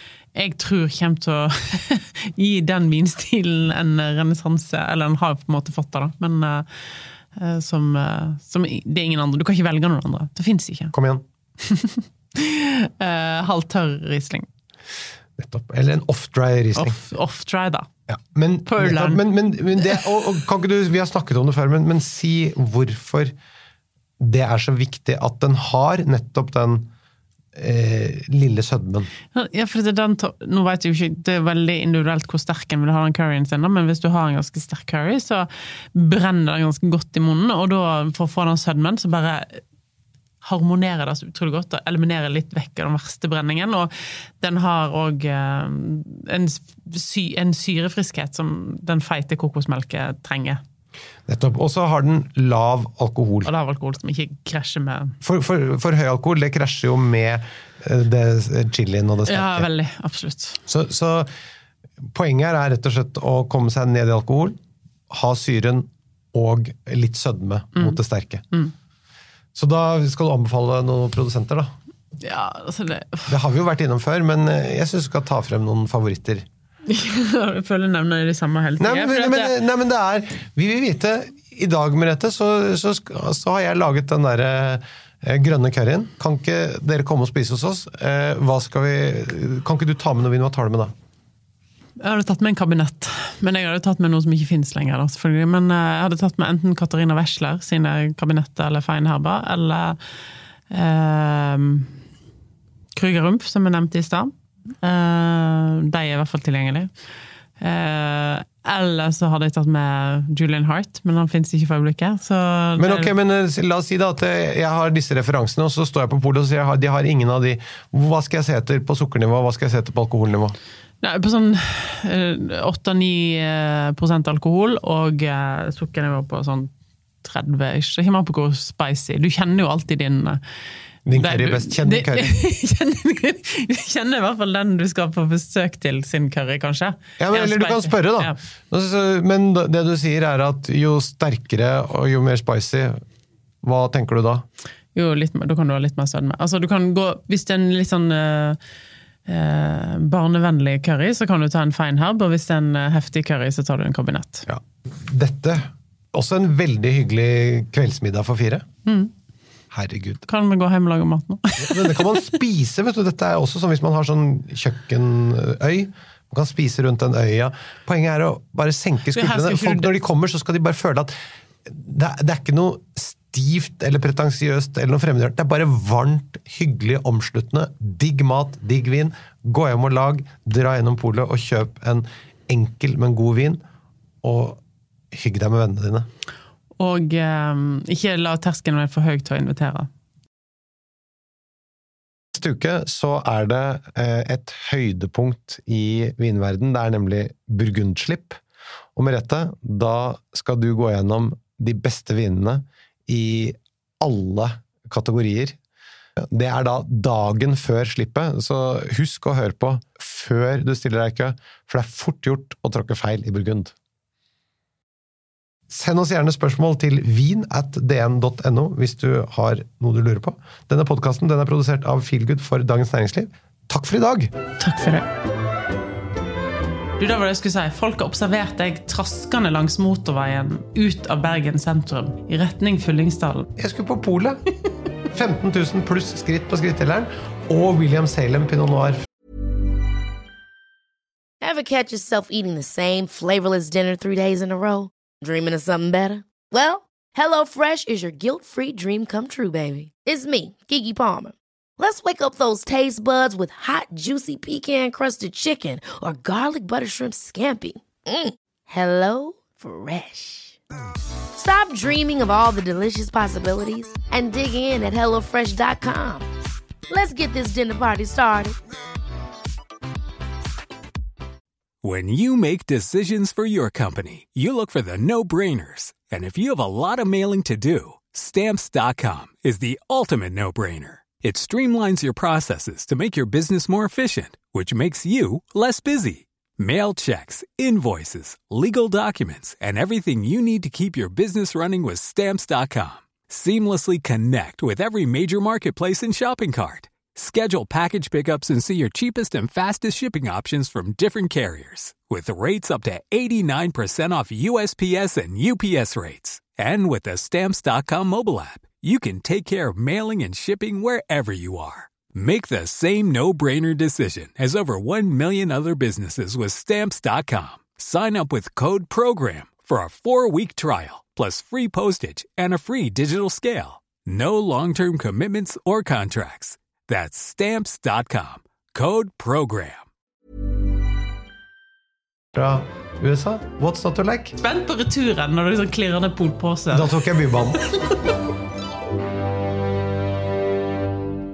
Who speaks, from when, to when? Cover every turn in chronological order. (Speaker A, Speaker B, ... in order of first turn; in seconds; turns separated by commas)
Speaker A: 0.3-6.7, Speaker A: 7.3-10.9, Speaker B: 10.9-11.2, Speaker A: 11.6-14.5, Speaker B: 15.4-17.0, Speaker A: 16.7-17.9, Speaker B: 18.1-23.3, Speaker A: 18.6-19.2, Speaker A: 19.8-20.0, Speaker B: 24.2-26.9, Speaker B: 27.5-29.1, Speaker A: 29.3-39.6, Speaker A: 40.4-50.6, Speaker B: 51.3-53.5, Speaker A: 53.4-55.1, Speaker B: 55.2-59.7, Speaker A: 59.3-60.6, Speaker B: 60.6-61.3, Speaker B: 62.1-64.6, Speaker B: 65.1-68.4, Speaker B: 69.5-71.7, Speaker A: 72.2-73.3, Speaker B: 73.3-76.5, Speaker A: 76.9-79.6, Speaker B: 78.8-90.9, Speaker A: 92.0-100.0, Speaker A: 100.7-101.9, Speaker A: 102.9-106.9, Speaker A: 107.6-113.1, Speaker B: 112.8-120.6, Speaker A: 121.0-126.7, Speaker A: 127.2-130.4, Speaker B: 131.1-132.4, Speaker A: 131.1-138.4, Speaker B: 137.2-143.0, Speaker B: 143.6-144.4, Speaker A: 144.9-148.6, Speaker A: 149.2-154.5, Speaker B: 154.5-158.7, Speaker A: 158.8-159.1, Speaker B: 159.7-160.2, Speaker A: 160.3-162.2, Speaker B: 161.6-171.1, Speaker A: 169.1-169.9, Speaker B: 171.7-183.6, Speaker B: 184.2-186.1, Speaker A: 186.8-189.9, Speaker B: 192.3-198.4, Speaker B: 198.9-205.6, Speaker B: 206.2-213.7, Speaker B: 215.7-224.3, Speaker A: 224.6-225.1, Speaker A: 227.0-233.5, Speaker B: 233.6-234.4, Speaker B: 235.1-239.0, Speaker C: 241.4-260.6, Speaker C: 261.3-266.3, Speaker C: 266.9-268.6, Speaker D: 271.8-329.8, Speaker B: 332.3-334.4, Speaker A: 334.4-337.0, Speaker B: 336.7-337.6, Speaker A: 337.6-338.0